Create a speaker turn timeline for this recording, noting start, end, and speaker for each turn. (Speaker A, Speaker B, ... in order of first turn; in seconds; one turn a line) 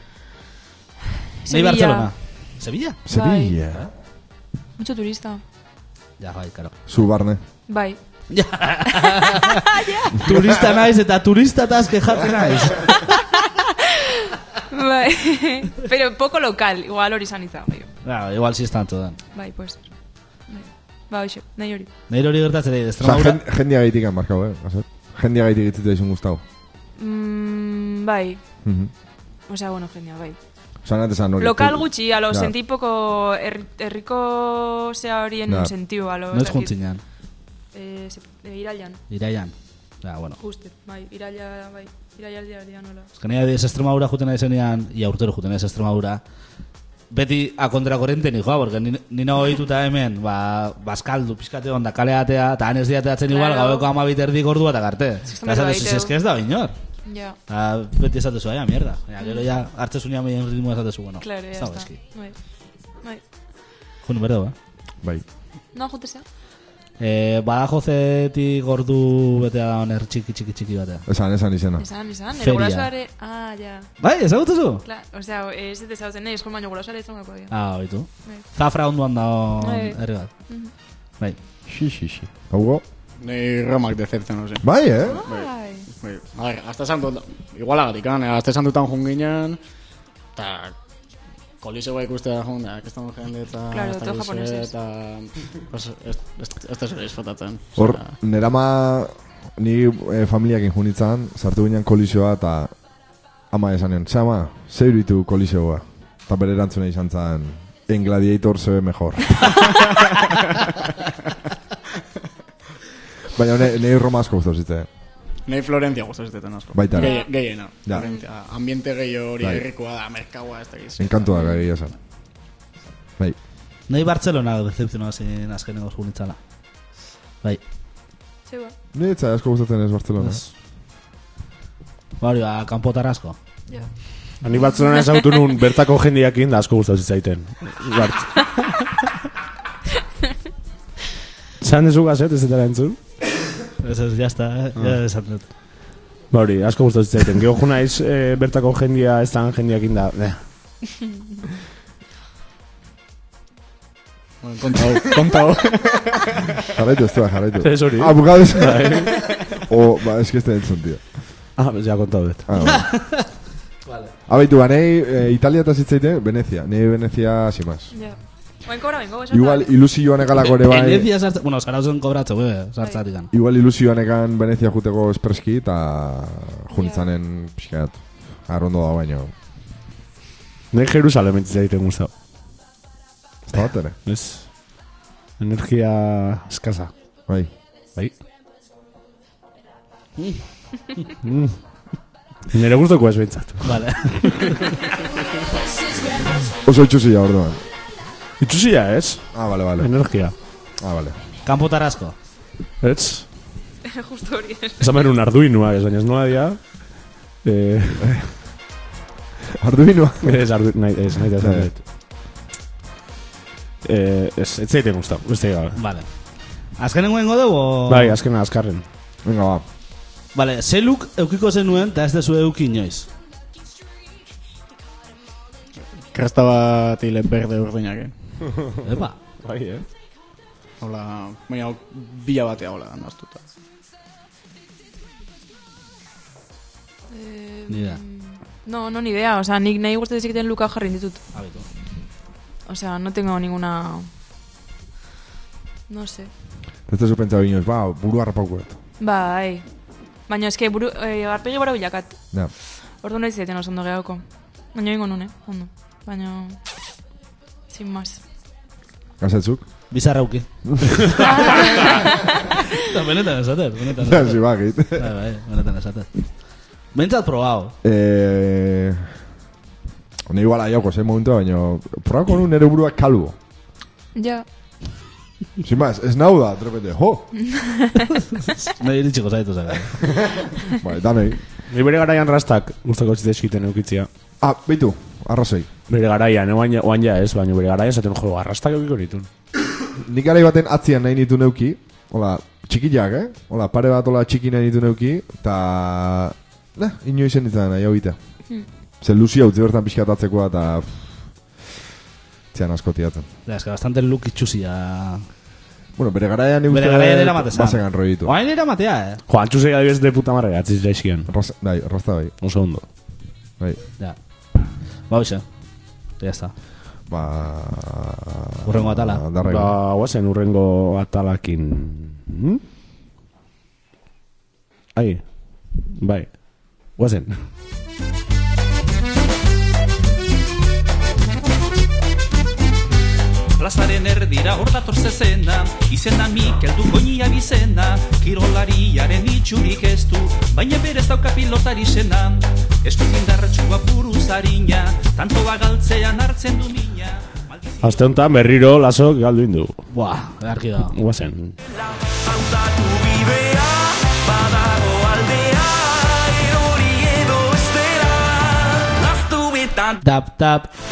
Speaker A: 1.4-2.1
Speaker B: 1.5-3.0
Speaker C: 3.1-3.8
Speaker A: 3.1-3.6
Speaker A: 4.8-5.4
Speaker B: 6.2-6.7
Speaker C: 6.9-7.4
Speaker A: 7.7-8.0
Speaker B: 8.3-9.6
Speaker A: 9.1-10.3
Speaker B: 10.2-12.9
Speaker A: 13.1-13.9
Speaker A: 14.7-17.9
Speaker B: 18.1-19.2
Speaker A: 19.3-19.8
Speaker A: 20.5-21.9
Speaker B: 22.1-23.4
Speaker C: 23.0-26.4
Speaker A: 27.0-28.4
Speaker C: 28.6-28.9
Speaker A: 29.5-30.4
Speaker C: 30.8-32.5
Speaker A: 31.4-36.7
Speaker B: 36.3-37.0
Speaker A: 37.7-39.0
Speaker B: 39.1-40.4
Speaker A: 40.4-43.1
Speaker B: 43.2-46.2
Speaker B: 47.1-56.7
Speaker A: 53.3-53.9
Speaker A: 55.3-56.1
Speaker A: 57.0-57.4
Speaker B: 57.5-61.9
Speaker A: 59.2-59.5
Speaker A: 61.2-62.3
Speaker B: 64.0-64.5
Speaker A: 65.7-66.2
Speaker B: 67.0-71.0
Speaker C: 71.1-71.8
Speaker A: 71.8-73.9
Speaker B: 72.4-72.9
Speaker B: 74.0-74.8
Speaker A: 74.8-77.5
Speaker B: 77.5-80.3
Speaker A: 79.6-80.7
Speaker C: 81.7-82.8
Speaker D: 83.2-84.7
Speaker C: 84.6-85.2
Speaker A: 85.1-85.9
Speaker D: 85.2-89.6
Speaker D: 90.4-90.7
Speaker D: 91.6-98.1
Speaker A: 93.7-94.7
Speaker C: 97.8-102.7
Speaker C: 103.5-109.7
Speaker C: 113.3-114.9
Speaker D: 115.5-121.3
Speaker C: 116.7-117.2
Speaker A: 116.9-117.3
Speaker A: 117.9-118.2
Speaker C: 121.0-121.9
Speaker A: 121.3-121.7
Speaker B: 123.9-126.4
Speaker A: 128.4-128.7
Speaker C: 128.9-130.4
Speaker B: 130.2-130.5
Speaker B: 132.2-133.4
Speaker E: 134.4-138.7
Speaker A: 134.6-135.0
Speaker E: 141.6-143.0
Speaker B: 143.8-145.5
Speaker E: 146.3-150.4
Speaker D: 154.4-156.4
Speaker C: 156.7-159.0
Speaker E: 157.6-159.2
Speaker C: 159.6-161.0
Speaker E: 161.6-162.4
Speaker C: 162.5-163.1
Speaker B: 162.6-163.2
Speaker B: 163.9-164.1
Speaker C: 164.3-167.9
Speaker A: 167.9-169.7
Speaker C: 169.3-171.1
Speaker B: 170.4-173.3
Speaker C: 173.3-179.3
Speaker A: 176.7-177.1
Speaker E: 180.7-182.1
Speaker C: 183.5-183.9
Speaker E: 184.1-184.5
Speaker E: 185.4-186.9
Speaker E: 191.2-191.6
Speaker E: 192.5-194.6
Speaker B: 193.6-194.7
Speaker C: 196.6-197.6
Speaker E: 198.4-200.3
Speaker C: 199.3-199.9
Speaker C: 200.8-201.2
Speaker B: 201.4-202.1
Speaker E: 202.8-203.2
Speaker A: 203.9-204.9
Speaker E: 204.8-206.8
Speaker E: 207.4-208.3
Speaker C: 209.6-210.4
Speaker E: 210.2-211.8
Speaker C: 211.4-211.7
Speaker E: 213.8-215.8
Speaker B: 215.8-216.1
Speaker B: 216.8-218.2
Speaker E: 217.9-218.8
Speaker C: 219.2-219.6
Speaker B: 220.3-223.1
Speaker D: 226.1-228.1
Speaker B: 228.8-229.2
Speaker E: 229.4-229.8
Speaker D: 230.8-233.4
Speaker A: 237.1-241.2
Speaker B: 237.7-238.0
Speaker B: 241.3-241.7
Speaker A: 242.7-244.1
Speaker A: 245.9-246.3
Speaker C: 246.9-248.8
Speaker A: 249.0-249.6
Speaker A: 250.3-252.2
Speaker A: 253.0-254.2
Speaker A: 254.7-256.6
Speaker A: 257.7-258.2
Speaker C: 259.2-259.6
Speaker B: 259.9-261.9
Speaker C: 260.6-261.1
Speaker A: 261.1-262.6
Speaker B: 262.8-266.1
Speaker C: 264.0-265.1
Speaker B: 266.9-267.7
Speaker C: 267.8-269.0
Speaker C: 270.3-273.4
Speaker A: 274.1-274.4
Speaker C: 275.6-277.3
Speaker A: 277.4-278.1
Speaker B: 278.6-279.9
Speaker C: 280.0-281.4
Speaker E: 281.7-284.1
Speaker C: 284.4-285.7
Speaker E: 285.9-289.3
Speaker C: 290.0-298.2
Speaker C: 299.0-300.9
Speaker C: 302.5-303.3
Speaker B: 303.4-305.2
Speaker C: 305.9-308.3
Speaker B: 306.7-309.2
Speaker E: 309.3-311.3
Speaker C: 311.3-312.3
Speaker E: 312.4-312.8
Speaker B: 315.1-315.4
Speaker B: 316.2-316.5
Speaker C: 317.1-319.8
Speaker B: 318.6-319.2
Speaker E: 319.4-322.6
Speaker E: 324.9-325.2
Speaker E: 325.9-327.3
Speaker F: 333.6-348.0
Speaker E: 347.8-349.8
Speaker B: 349.9-350.9
Speaker E: 350.9-351.6
Speaker F: 352.3-360.0
Speaker B: 360.0-360.7